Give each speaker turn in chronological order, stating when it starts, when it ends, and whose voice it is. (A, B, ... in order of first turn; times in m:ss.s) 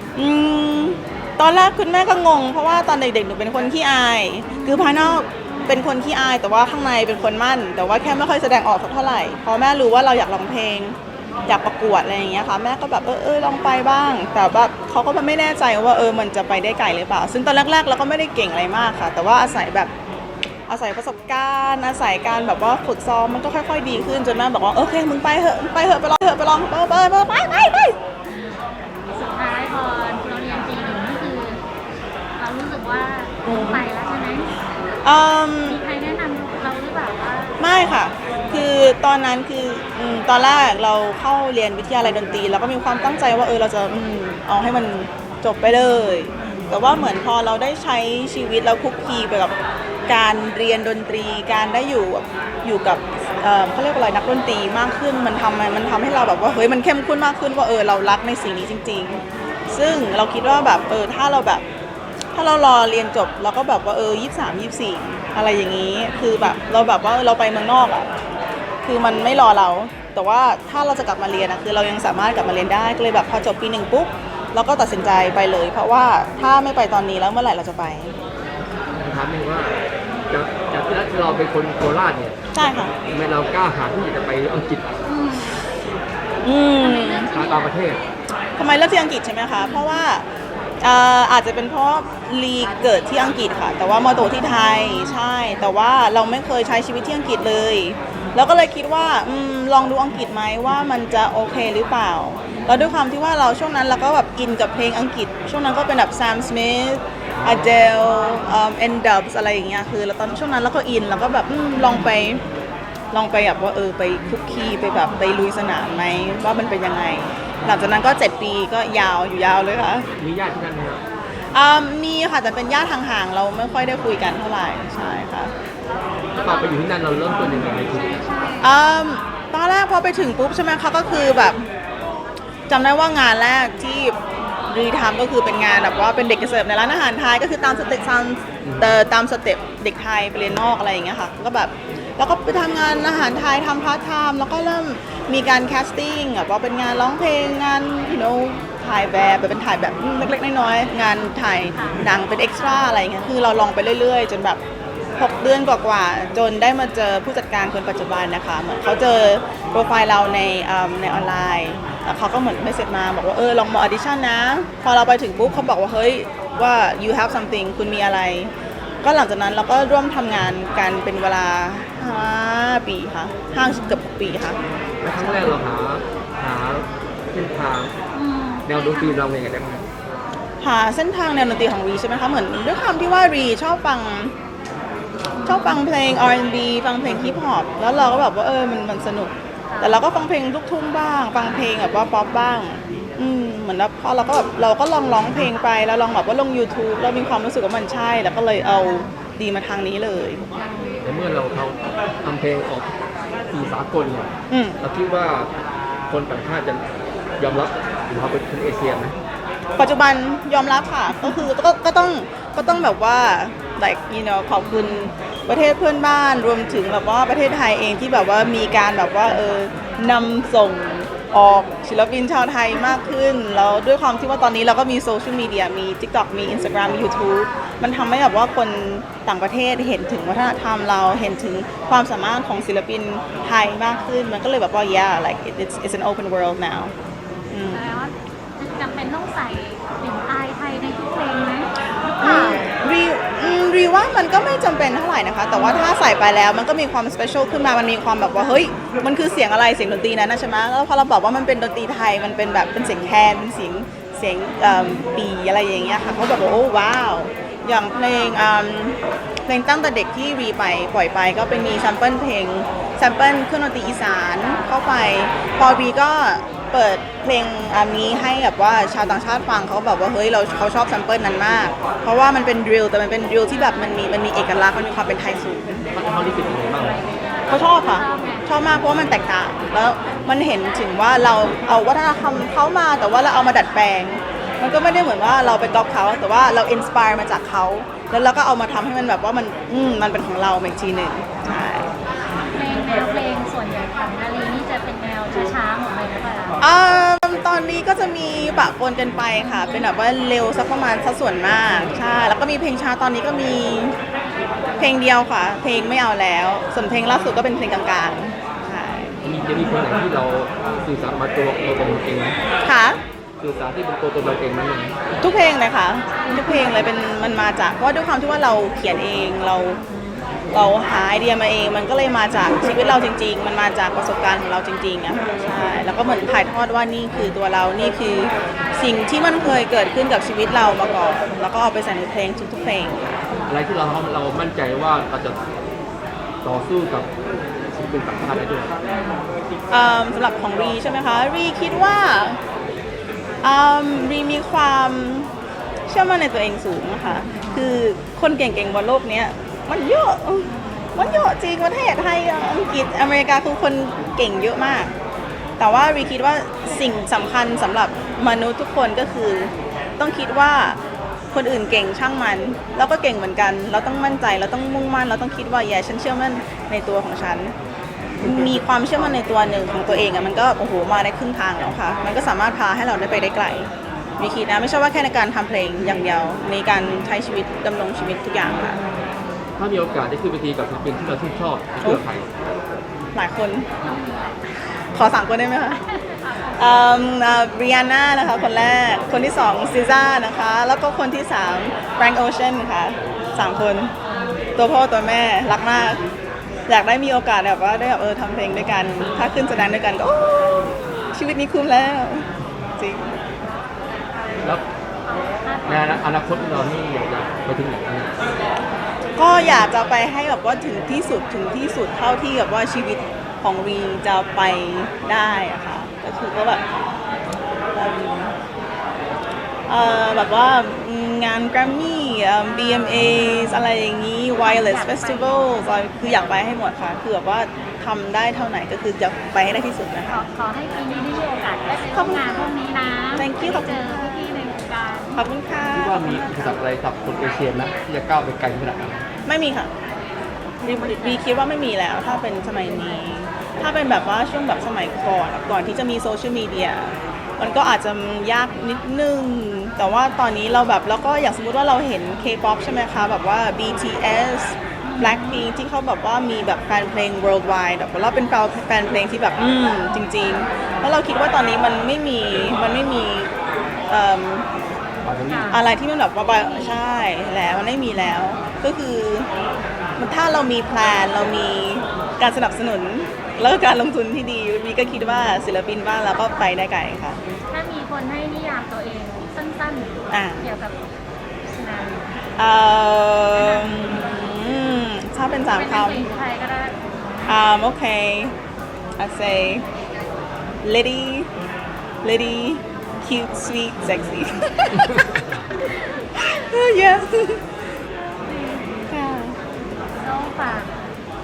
0:00.2-0:11.0 A
0:04.5-0:05.8 B
0:11.5-0:19.9 A
0:20.7-0:28.0 A
0:29.1-0:31.6 B
0:32.4-0:34.5 B
0:33.4-0:33.8 A
0:35.0-0:35.8 A
0:35.6-0:37.8 B
0:37.6-0:49.5 A
0:50.1-1:01.6 A
1:02.4-1:08.1 A
1:08.8-1:18.2 A
1:19.0-1:19.7 C
1:20.3-1:22.4 C
1:22.5-1:22.9 A
1:23.1-1:24.9 C
1:25.1-1:25.6 B
1:26.4-1:27.3 A
1:26.8-1:27.7 B
1:27.3-1:28.0 C
1:28.6-1:30.2 A
1:29.6-1:30.0 B
1:30.8-1:52.4 A
1:34.7-1:35.1 B
1:53.1-2:00.1 A
2:00.2-2:01.0 C
2:01.5-2:05.5 A
2:06.4-2:08.7 B
2:06.4-2:08.2 C
2:08.6-2:11.7 A
2:12.7-2:14.2 A
2:14.7-2:34.6 A
2:18.6-2:19.0 C
2:35.2-2:48.5 A
2:49.0-2:54.6 A
2:53.7-2:54.0 B
2:55.0-2:58.0 C
2:55.2-2:55.5 A
2:58.1-2:59.2 B
2:58.6-2:59.9 C
3:00.6-3:04.3 A
3:05.3-3:05.8 B
3:05.4-3:20.4 A
3:09.7-3:10.0 B
3:18.7-3:19.1 B
3:20.6-3:21.0 B
3:21.0-3:22.9 C
3:23.5-3:25.5 C
3:24.5-3:24.8 A
3:26.1-3:26.8 C
3:27.4-3:29.2 C
3:29.8-3:56.9 A
3:34.7-3:35.1 B
3:57.5-3:57.9 A
3:57.7-4:02.7 B
4:02.2-4:35.9 A
4:35.9-4:37.0 C
4:37.2-4:38.5 B
4:37.5-4:51.9 A
4:52.5-4:56.6 B
4:56.6-5:04.0 A
5:04.8-5:09.2 A
5:09.2-5:12.4 C
5:12.6-5:13.0 A
5:13.4-5:15.0 C
5:15.2-5:19.8 A
5:20.5-5:33.1 A
5:33.5-5:35.4 C
5:36.4-5:37.1 C
5:37.7-5:38.7 C
5:38.8-5:39.2 B
5:39.7-5:42.4 A
5:43.4-5:45.3 A
5:45.9-5:54.9 A
5:55.6-6:00.8 A
6:01.3-6:07.5 A
6:08.2-6:18.8 A
6:19.6-6:22.3 C
6:23.1-6:23.7 A
6:23.8-6:24.4 B
6:24.9-6:25.8 A
6:25.9-6:26.3 B
6:26.5-6:33.9 A
6:34.6-6:36.0 A
6:36.7-6:42.2 A
6:42.8-6:43.1 A
6:45.1-6:46.0 B
6:45.7-6:48.1 C
6:49.2-6:56.6 A
6:57.7-6:58.4 A
6:59.7-7:10.2 A
7:04.4-7:05.6 B
7:10.1-7:15.3 B
7:11.9-7:12.5 A
7:13.2-7:14.3 A
7:15.2-7:16.5 A
7:15.7-7:19.0 C
7:19.2-7:19.7 A
7:20.6-7:21.2 B
7:20.6-7:43.3 A
7:34.8-7:35.4 B
7:43.9-7:44.5 A
7:45.0-7:45.5 C
7:45.3-7:45.6 B
7:45.5-7:49.3 A
7:50.0-7:57.2 A
7:57.5-8:00.8 B
8:00.1-8:00.5 A
8:01.4-8:02.2 B
8:02.4-8:06.0 A
8:03.3-8:04.1 B
8:05.4-8:07.3 B
8:07.3-8:08.3 A
8:09.0-8:09.6 A
8:10.6-8:11.3 A
8:12.0-8:15.1 A
8:16.2-8:17.4 A
8:18.3-8:18.8 B
8:18.9-8:19.4 A
8:20.0-8:20.9 B